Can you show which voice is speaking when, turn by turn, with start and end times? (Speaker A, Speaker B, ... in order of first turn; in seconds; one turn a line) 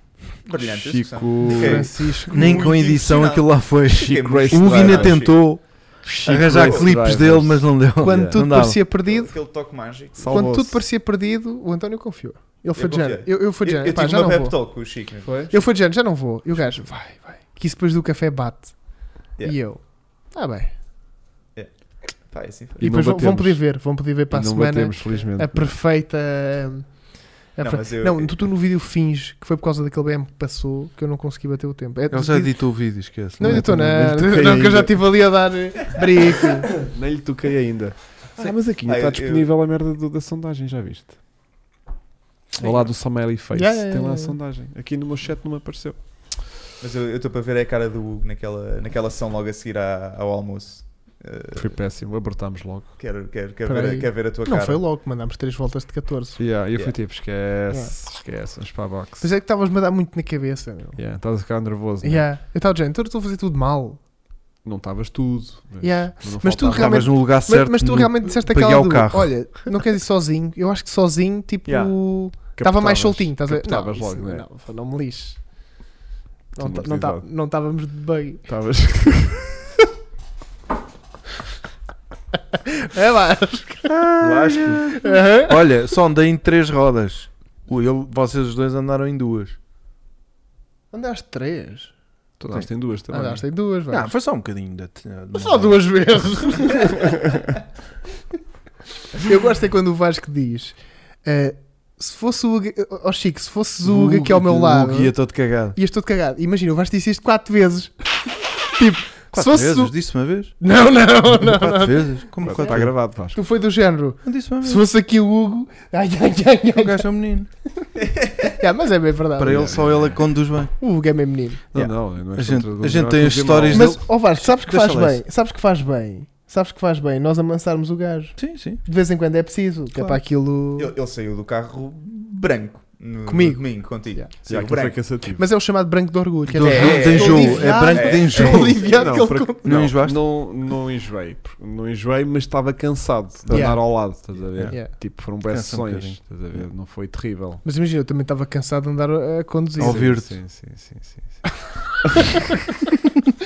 Speaker A: 0.4-5.4
Speaker B: 0.6-2.2
Speaker C: 1.4-2.6
Speaker D: 2.3-8.8
Speaker B: 3.9-5.4
Speaker B: 6.2-8.4
Speaker A: 6.2-6.9
Speaker C: 8.0-9.3
Speaker A: 8.9-10.5
Speaker B: 10.2-10.8
Speaker C: 10.2-14.9
Speaker A: 12.8-15.5
Speaker B: 15.2-15.5
Speaker C: 15.5-20.7
Speaker A: 21.5-22.8
Speaker B: 22.8-23.8
Speaker C: 22.8-36.7
Speaker B: 24.3-25.7
Speaker A: 27.6-28.4
Speaker D: 32.1-33.7
Speaker B: 33.4-35.1
Speaker B: 36.8-41.2
Speaker A: 38.4-39.5
Speaker B: 42.6-46.0
Speaker A: 42.6-42.9
Speaker C: 43.5-44.4
Speaker A: 46.8-51.7
Speaker B: 51.5-52.9
Speaker A: 53.0-54.8
Speaker C: 53.6-56.4
Speaker B: 56.4-59.2
Speaker C: 57.7-57.9
Speaker C: 59.2-61.0
Speaker B: 61.0-62.3
Speaker C: 62.0-64.0
Speaker B: 64.6-67.1
Speaker C: 65.8-75.5
Speaker D: 66.7-69.7
Speaker A: 71.7-71.9
Speaker B: 72.6-74.5
Speaker C: 76.5-78.5
Speaker B: 76.5-77.2
Speaker B: 78.5-79.7
Speaker C: 82.5-84.2
Speaker B: 83.8-84.8
Speaker D: 84.2-89.5
Speaker C: 84.9-85.6
Speaker C: 90.9-91.9
Speaker B: 92.4-93.5
Speaker C: 93.1-94.1
Speaker D: 93.9-96.1
Speaker C: 95.3-97.4
Speaker C: 99.2-110.0
Speaker D: 103.8-105.8
Speaker D: 109.3-110.6
Speaker C: 110.6-117.1
Speaker D: 111.3-113.0
Speaker B: 112.4-113.4
Speaker D: 114.2-114.8
Speaker D: 116.7-117.5
Speaker A: 118.0-118.5
Speaker C: 118.4-119.7
Speaker D: 119.4-120.7
Speaker B: 119.5-120.2
Speaker C: 120.8-121.6
Speaker B: 121.7-124.0
Speaker D: 121.7-125.2
Speaker C: 123.7-130.9
Speaker D: 128.4-128.8
Speaker D: 129.9-130.2
Speaker A: 130.8-135.0
Speaker C: 133.3-134.3
Speaker B: 134.4-135.4
Speaker C: 134.9-139.9
Speaker D: 136.5-140.2
Speaker A: 136.6-139.2
Speaker B: 138.9-147.6
Speaker A: 143.4-143.7
Speaker C: 143.5-144.9
Speaker D: 144.5-146.6
Speaker C: 147.6-150.1
Speaker D: 149.8-150.3
Speaker B: 149.8-151.4
Speaker B: 152.0-152.3
Speaker C: 152.1-152.4